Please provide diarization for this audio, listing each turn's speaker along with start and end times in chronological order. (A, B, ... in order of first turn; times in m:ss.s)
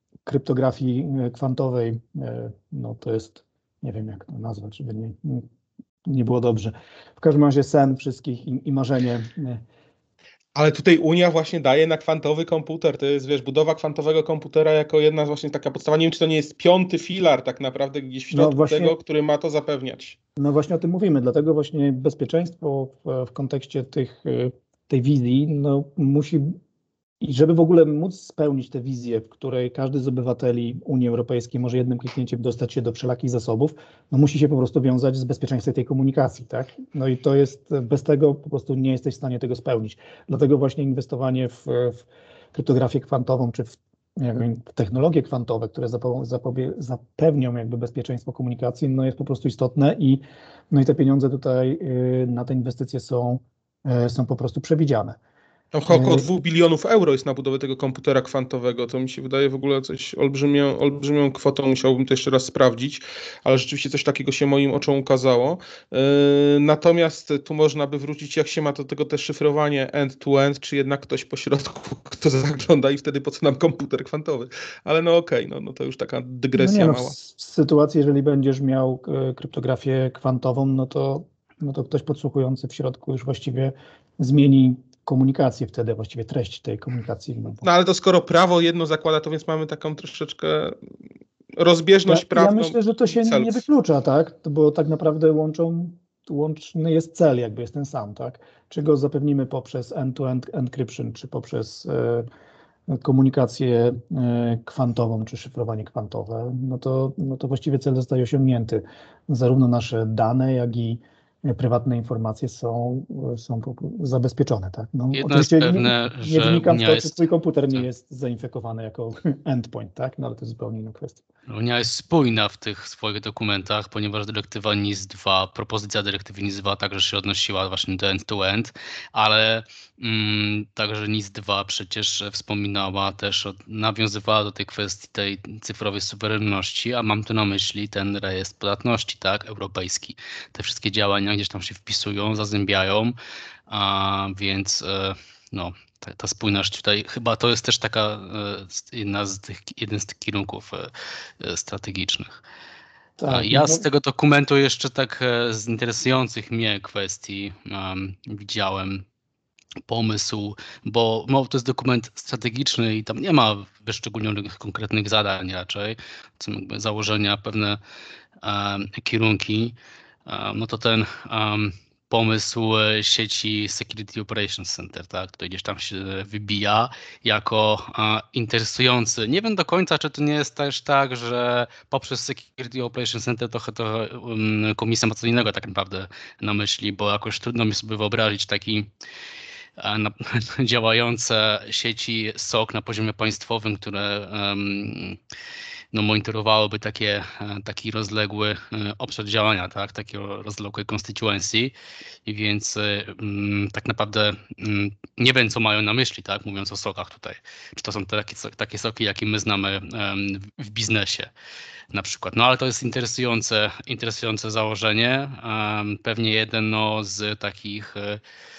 0:00.2-0:05.4 A
0:06.0-0:09.6 A
0:10.5-0:20.2 B
0:18.3-0:18.9 A
0:20.4-0:26.6 A
0:27.2-0:55.2 A
0:55.7-1:17.2 B
0:55.9-0:56.3 A
1:16.5-1:27.6 A
1:27.6-1:30.7 B
1:31.6-1:33.6 B
1:32.1-1:42.3 A
1:42.9-2:01.2 A
1:55.1-1:57.2 C
2:01.5-2:23.2 C
2:23.7-2:30.9 C
2:31.4-2:32.4 C
2:33.2-2:33.8 A
2:33.3-2:39.0 C
2:39.9-2:47.8 C
2:48.4-3:08.9 C
3:09.8-3:15.2 C
3:15.9-3:21.7 C
3:22.2-3:31.3 C
3:31.9-3:38.2 C